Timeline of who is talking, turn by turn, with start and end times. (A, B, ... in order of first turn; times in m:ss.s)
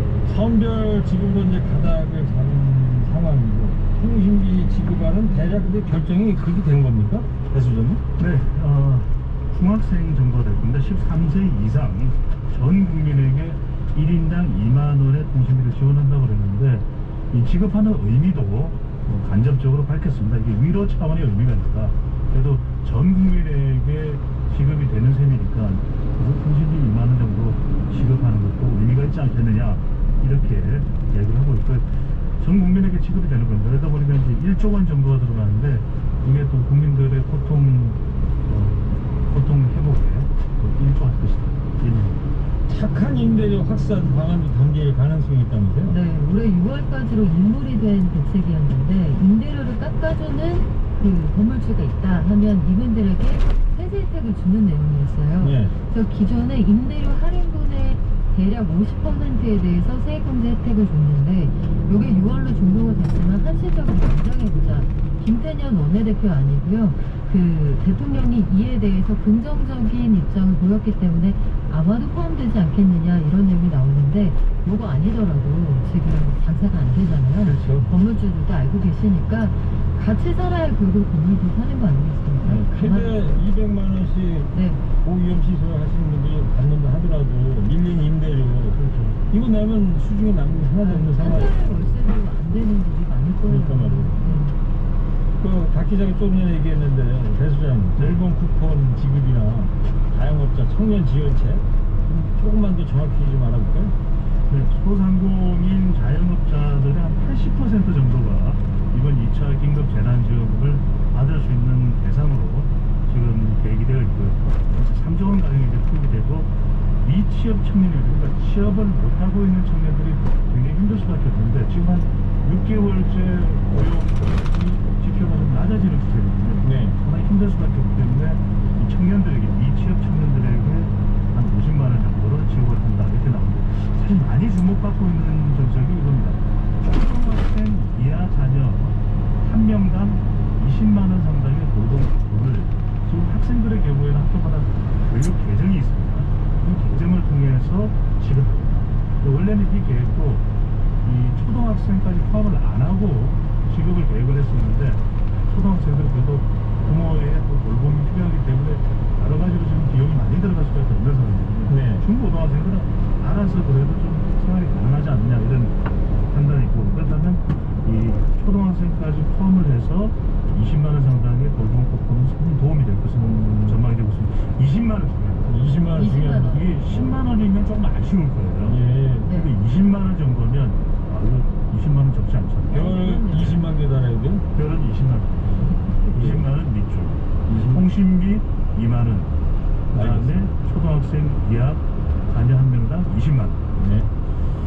0:00.2-0:08.0 A
0:08.2-0:42.2 B
0:42.7-0:45.9 A
0:45.8-1:23.4 C
0:55.4-0:55.8 A
1:17.4-1:17.8 B
1:17.6-1:17.8 A
1:22.4-1:28.8 A
1:24.5-1:24.8 C
1:28.7-1:29.2 B
1:29.3-1:31.7 A
1:30.8-1:34.6 C
1:33.4-1:34.3 A
1:35.4-1:43.9 A
1:38.0-1:38.2 B
1:44.5-1:56.5 B
1:57.0-2:30.5 B
2:06.6-2:07.0 A
2:31.0-2:45.8 B
2:41.7-2:42.1 A
2:46.3-2:55.5 B
2:53.5-2:53.8 A
2:55.4-2:57.2 A
2:56.0-2:56.8 C
2:56.4-3:03.0 B
2:58.6-2:59.3 A
2:59.2-2:59.5 C
3:02.7-3:04.4 A
3:02.8-3:03.6 C
3:04.5-3:09.4 B
3:06.1-3:06.5 A
3:07.5-3:07.9 A
3:09.9-3:13.7 B
3:09.9-3:10.4 A
3:13.8-3:14.1 A